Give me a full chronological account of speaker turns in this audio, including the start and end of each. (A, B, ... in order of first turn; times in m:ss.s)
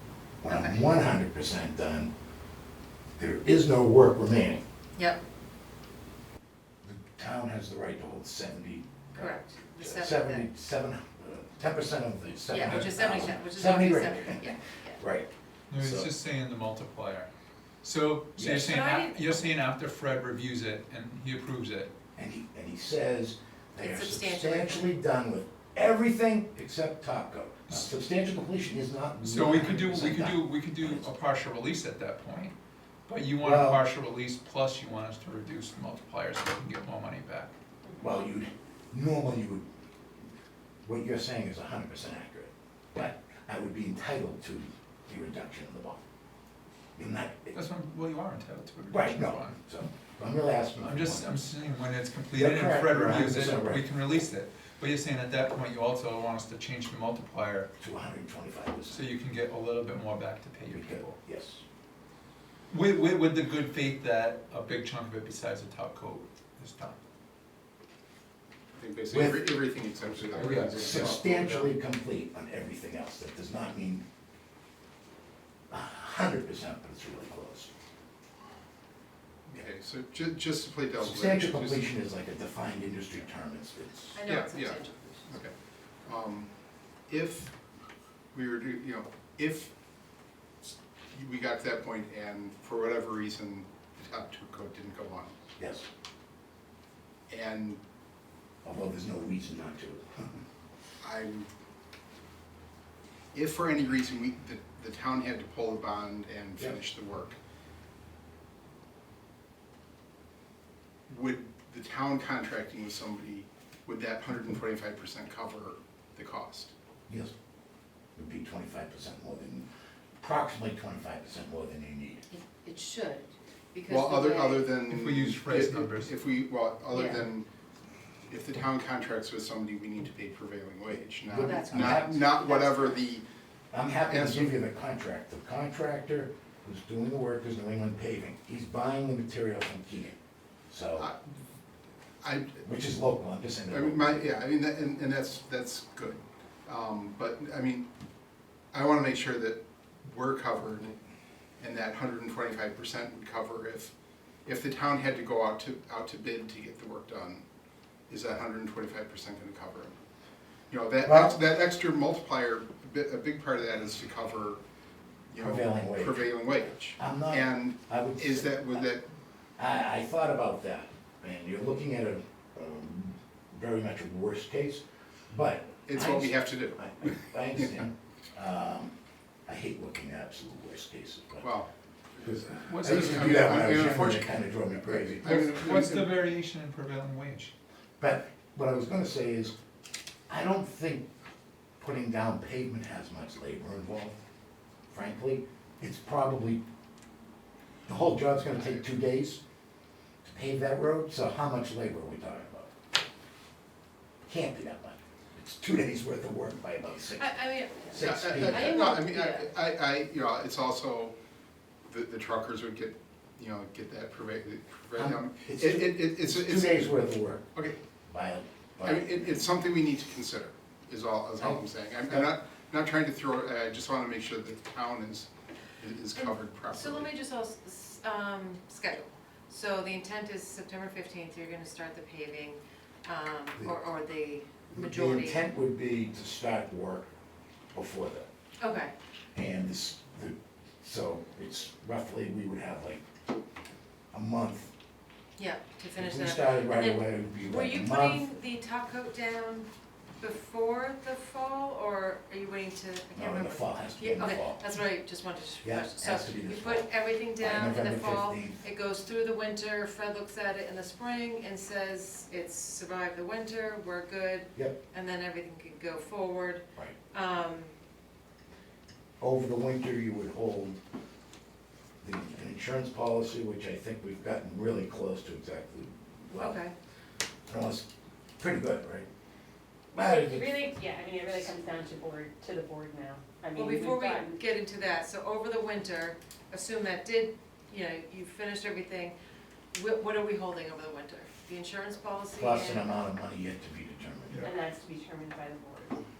0:00.4-0:02.1 A
0:00.5-0:00.8 B
0:03.2-0:04.6 A
0:06.8-0:16.1 A
0:09.2-0:10.5 B
0:12.5-0:15.0 B
0:12.6-0:13.1 C
0:15.7-0:17.3 C
0:17.8-0:21.9 C
0:18.6-0:19.5 B
0:22.2-0:31.0 A
0:23.8-0:24.9 B
0:29.2-0:32.5 C
0:33.1-0:37.6 C
0:33.4-0:33.8 A
0:37.8-0:38.2 D
0:38.0-0:39.7 A
0:40.8-0:46.0 A
0:47.0-0:47.6 A
0:47.5-0:49.6 C
0:48.9-0:51.3 A
0:50.8-0:57.7 C
0:52.3-0:53.9 A
0:57.8-0:59.0 A
0:58.9-1:01.2 C
1:00.6-1:01.6 A
1:02.7-1:07.0 C
1:08.7-1:11.7 E
1:09.1-1:09.4 A
1:10.3-1:14.0 A
1:10.4-1:11.2 C
1:15.7-1:17.7 A
1:19.5-1:21.9 E
1:21.0-1:24.2 A
1:24.1-1:25.4 B
1:24.2-1:26.5 E
1:27.1-1:27.5 E
1:28.3-1:29.7 E
1:30.6-1:35.4 E
1:35.6-1:35.9 A
1:37.3-1:37.8 E
1:38.6-1:40.4 A
1:41.0-1:41.5 E
1:43.3-1:47.4 E
1:51.1-1:56.7 E
1:57.1-1:57.3 A
1:58.2-1:59.7 A
2:00.2-2:02.2 A
2:02.3-2:04.7 B
2:03.9-2:07.5 E
2:04.8-2:06.1 C
2:06.9-2:07.2 B
2:08.3-2:13.2 E
2:11.2-2:12.2 A
2:11.4-2:13.1 B
2:13.7-2:20.2 A
2:14.1-2:14.5 E
2:20.7-2:21.1 A
2:21.0-2:21.2 E
2:22.2-2:22.6 E
2:22.6-2:24.2 A
2:23.7-2:27.9 E
2:28.7-2:31.0 E
2:31.6-2:33.9 E
2:34.4-2:37.4 E
2:38.1-2:40.0 E
2:40.7-2:44.6 E
2:41.0-2:41.4 A
2:45.3-2:49.0 E
2:45.4-2:48.8 A
2:49.6-2:58.9 A
2:55.8-2:57.7 E
2:59.5-3:01.5 A
3:01.4-3:06.2 E
3:02.2-3:05.6 A
3:02.7-3:03.9 C
3:05.2-3:07.5 C
3:08.0-3:09.5 A
3:10.3-3:11.1 A
3:11.8-3:14.2 A
3:14.9-3:16.6 A
3:17.8-3:19.4 A
3:20.2-3:22.7 A
3:24.2-3:28.9 A
3:27.2-3:29.5 B
3:28.0-3:31.1 E
3:31.9-3:37.0 E
3:34.9-3:37.5 A
3:38.1-3:39.5 A
3:38.8-3:45.3 E
3:41.4-3:42.3 A
3:45.8-3:47.1 E
3:46.1-3:55.4 B
3:54.7-3:57.1 A
3:57.7-3:58.3 A
3:58.6-3:58.9 B
3:59.3-4:03.0 A
4:04.1-4:04.7 A
4:05.4-4:09.7 B
4:06.0-4:08.2 A
4:10.2-4:27.7 B
4:13.1-4:14.6 A
4:15.6-4:18.6 A
4:29.2-4:30.8 A
4:32.0-4:36.6 A
4:36.4-4:36.7 B
4:37.5-4:37.9 A
4:38.4-4:39.1 A
4:39.9-4:40.6 A
4:40.1-4:44.4 D
4:43.5-4:49.1 B
4:49.7-4:52.8 B
4:52.3-4:54.5 A
4:54.4-4:56.0 D